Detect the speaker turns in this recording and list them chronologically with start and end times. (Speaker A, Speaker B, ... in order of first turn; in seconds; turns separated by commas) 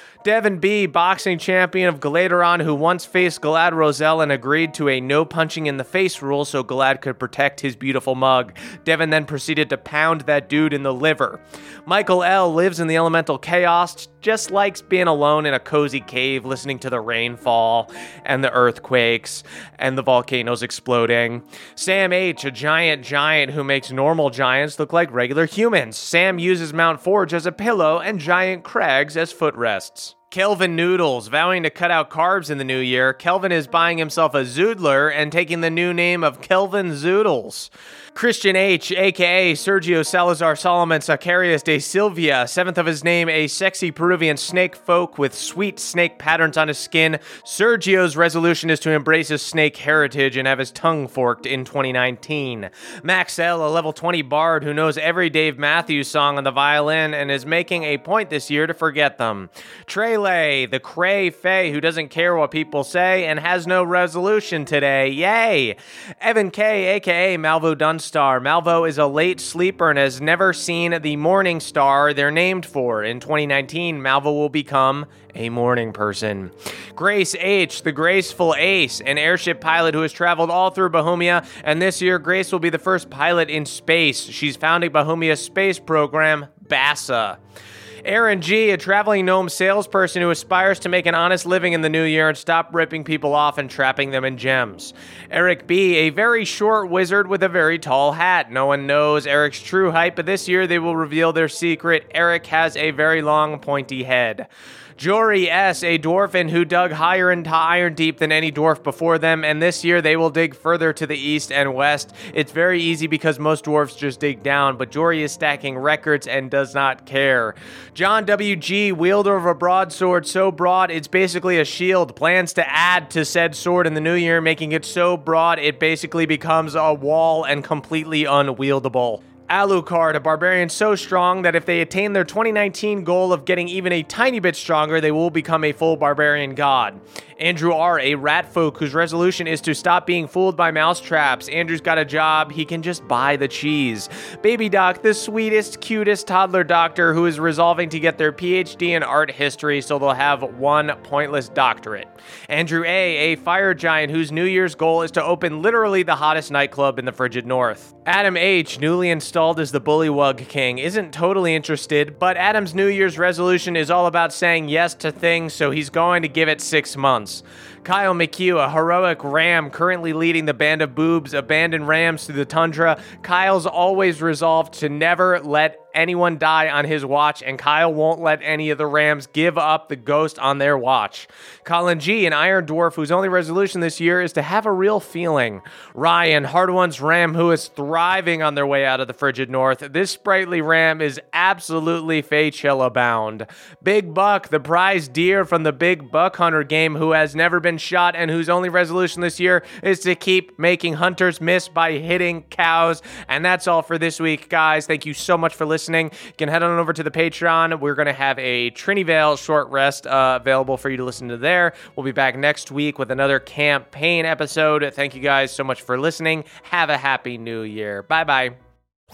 Speaker A: 0.2-87.4, Speaker A: 88.0-218.6